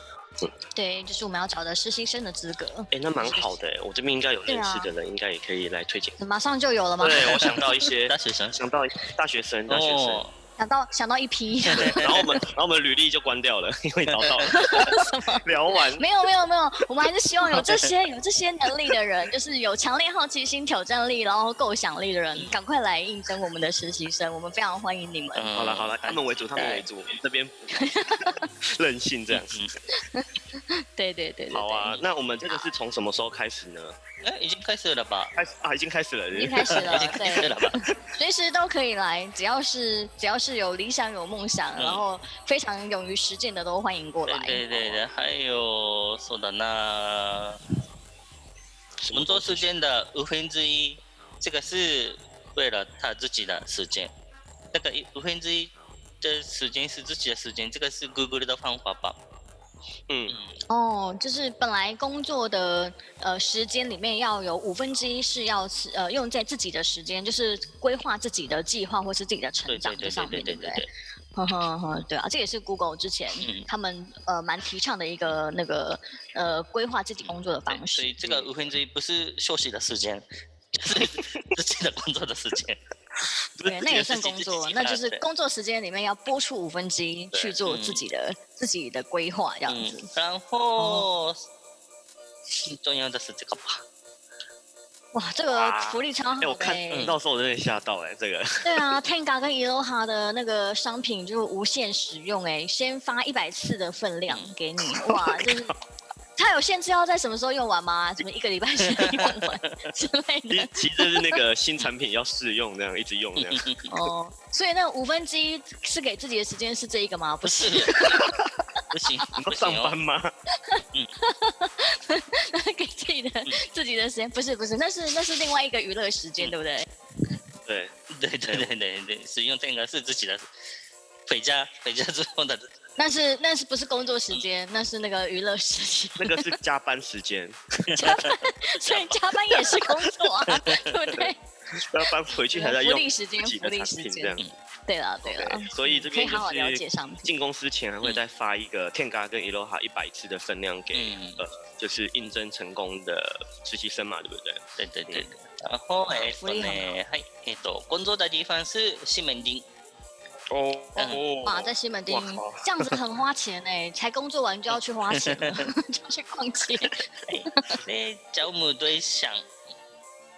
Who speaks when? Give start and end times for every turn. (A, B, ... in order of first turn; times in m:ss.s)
0:00.7-0:03.6 A
0:02.9-0:06.2 B
0:04.5-0:04.9 A
0:06.2-0:07.8 A
0:07.0-0:10.2 B
0:08.0-0:08.6 C
0:09.7-0:10.3 C
0:10.6-0:12.2 A
0:11.7-0:12.3 C
0:11.8-0:16.0 B
0:14.1-0:14.9 C
0:14.5-0:25.5 A
0:17.5-0:17.9 C
0:25.3-0:26.9 C
0:25.5-0:29.6 B
0:27.7-0:28.5 A
0:29.3-0:29.7 C
0:29.9-0:32.6 A
0:31.5-0:34.0 B
0:34.2-0:35.4 C
0:35.4-0:37.1 B
0:36.3-0:44.6 A
0:36.7-0:37.8 C
0:41.8-0:42.0 C
0:44.3-0:47.6 C
0:49.0-0:49.7 B
0:49.1-0:54.1 C
0:54.7-0:59.2 C
1:00.1-1:00.4 B
1:00.3-1:00.6 C
1:00.7-1:10.8 A
1:09.7-1:10.9 C
1:11.4-1:18.1 A
1:13.4-1:13.7 C
1:17.2-1:22.8 C
1:18.2-1:18.5 B
1:21.0-1:21.4 B
1:23.6-1:24.0 B
1:23.6-1:30.1 A
1:23.9-1:25.2 C
1:27.6-1:28.0 C
1:29.7-1:31.4 C
1:30.8-1:31.1 A
1:32.5-1:33.8 C
1:35.1-1:37.1 A
1:35.4-1:38.9 B
1:38.6-1:45.7 A
1:44.3-1:44.5 C
1:44.9-1:45.8 B
1:46.4-1:51.4 A
1:48.9-1:49.5 C
1:50.5-1:53.6 B
1:53.4-1:53.9 C
1:53.9-1:58.4 A
1:57.4-1:58.4 C
1:58.9-1:59.9 C
1:59.4-2:00.3 B
2:00.6-2:06.9 A
2:07.6-2:07.9 B
2:08.1-2:10.5 C
2:08.4-2:08.7 B
2:11.3-2:12.7 C
2:13.0-2:16.5 A
2:16.2-2:17.9 B
2:17.9-2:21.4 A
2:21.8-2:24.5 B
2:22.5-2:27.3 A
2:25.2-2:35.3 B
2:30.9-2:31.4 C
2:34.8-2:39.6 C
2:36.1-2:36.9 A
2:40.5-2:42.9 B
2:41.0-2:41.2 C
2:41.4-2:47.8 A
2:45.1-2:45.7 C
2:46.8-2:49.4 C